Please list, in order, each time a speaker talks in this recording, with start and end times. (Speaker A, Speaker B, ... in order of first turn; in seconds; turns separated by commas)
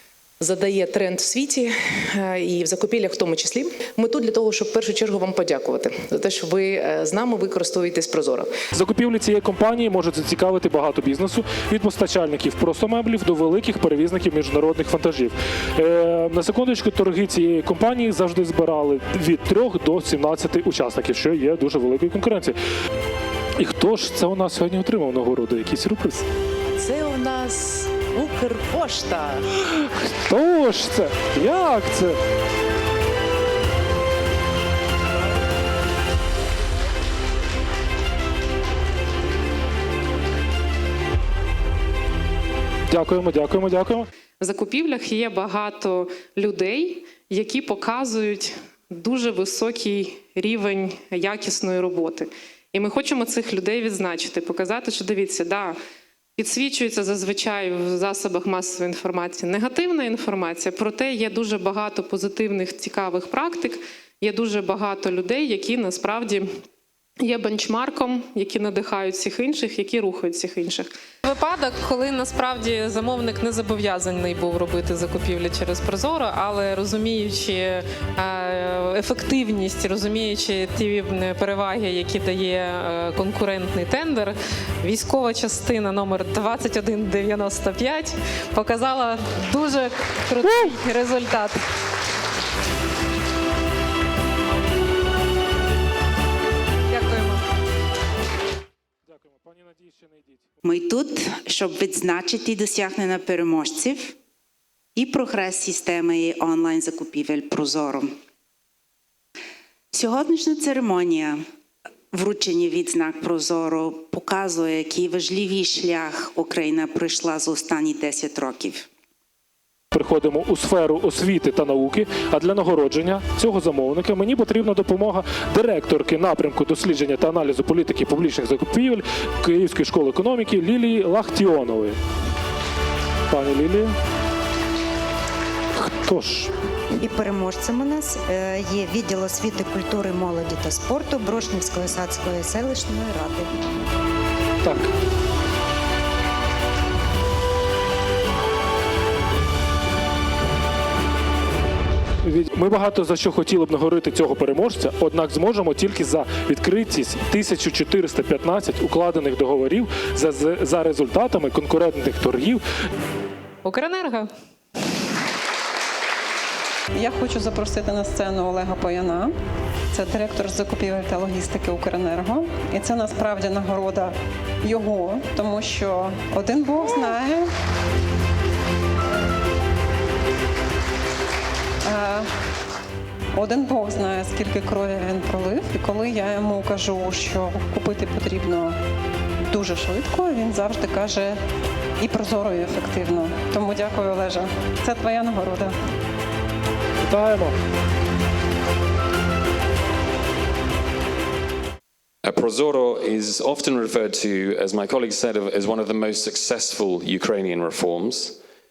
Speaker A: 0.4-8.5, Speaker B: 8.7-22.6, Speaker B: 23.6-26.2, Speaker A: 26.7-29.4, Speaker B: 30.2-32.2, Speaker B: 42.9-44.0, Speaker C: 44.4-55.8, Speaker C: 56.4-66.5, Speaker C: 67.2-91.6, Speaker C: 96.9-97.4, Speaker B: 99.1-100.4, Speaker D: 100.6-104.2, Speaker D: 104.9-108.1, Speaker D: 109.9-111.4, Speaker D: 112.1-118.9, Speaker B: 119.9-132.0, Speaker B: 133.3-133.9, Speaker B: 135.8-136.5, Speaker E: 137.0-143.5, Speaker B: 152.2-162.6, Speaker C: 163.6-164.3, Speaker F: 166.9-169.3, Speaker F: 169.9-177.5, Speaker F: 181.8-182.3, Speaker F: 183.3-188.8, Speaker F: 189.5-191.3, Speaker F: 192.0-195.7, Speaker B: 197.0-197.5, Speaker G: 202.2-208.4